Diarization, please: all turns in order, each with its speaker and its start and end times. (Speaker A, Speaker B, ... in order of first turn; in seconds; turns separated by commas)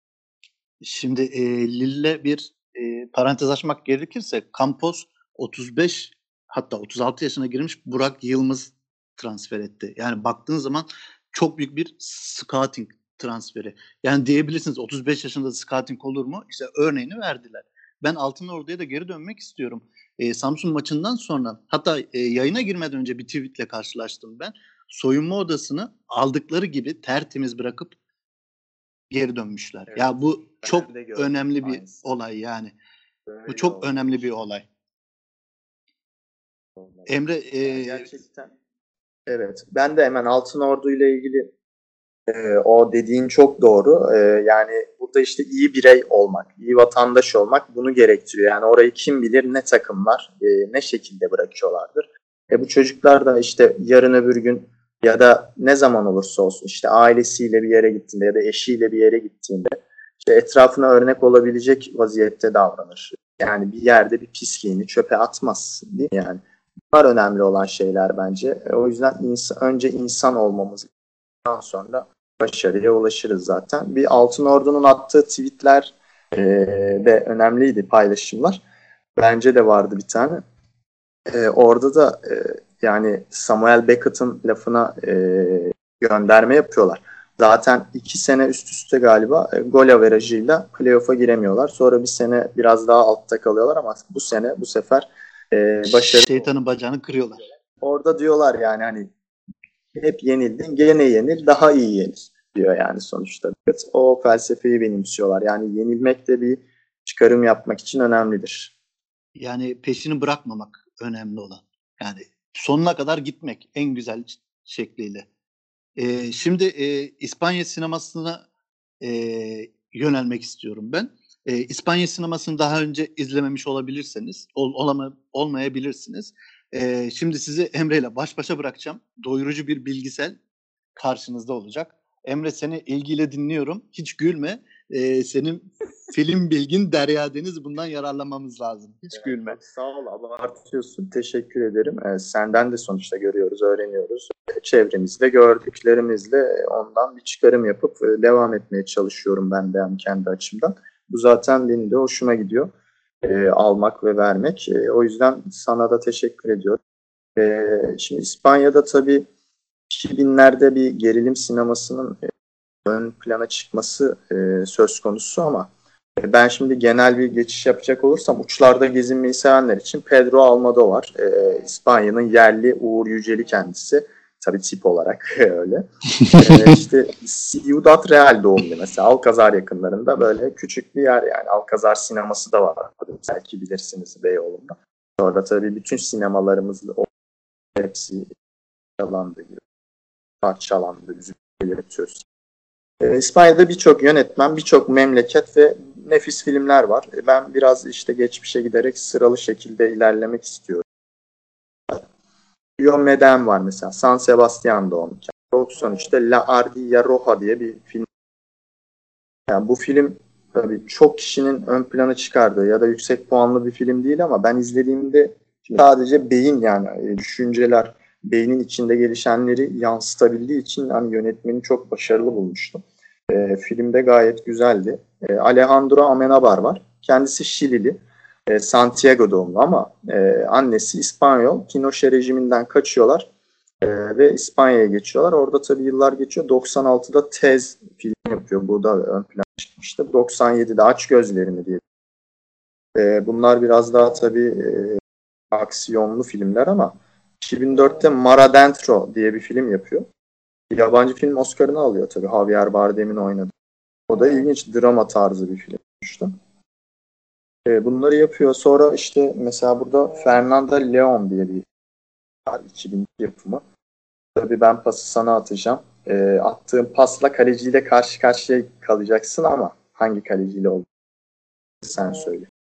Speaker A: 0.8-27.9, Speaker A: 29.1-32.7, Speaker B: 29.9-32.2, Speaker B: 33.3-34.4, Speaker A: 33.5-34.6, Speaker B: 36.8-38.5, Speaker A: 37.0-38.1, Speaker B: 39.3-41.5, Speaker B: 42.3-70.9, Speaker B: 71.4-78.6, Speaker B: 79.2-80.4, Speaker B: 81.3-96.5, Speaker A: 96.1-97.4, Speaker B: 97.8-99.1, Speaker B: 99.9-108.7, Speaker A: 109.3-115.2, Speaker A: 116.0-118.4, Speaker A: 119.0-130.3, Speaker A: 130.9-139.6, Speaker B: 139.1-156.8, Speaker B: 157.3-159.2, Speaker B: 159.9-162.3, Speaker B: 162.8-187.1, Speaker A: 176.2-176.7, Speaker B: 187.8-188.3, Speaker B: 189.0-189.6, Speaker B: 190.4-192.2, Speaker B: 193.0-200.8, Speaker B: 202.8-208.1, Speaker B: 209.5-233.3, Speaker B: 233.8-241.8, Speaker B: 242.9-245.0, Speaker B: 245.5-250.1, Speaker B: 250.7-253.5, Speaker B: 254.1-256.3, Speaker B: 257.6-261.6, Speaker B: 262.4-263.6, Speaker B: 264.3-270.9, Speaker B: 271.8-272.5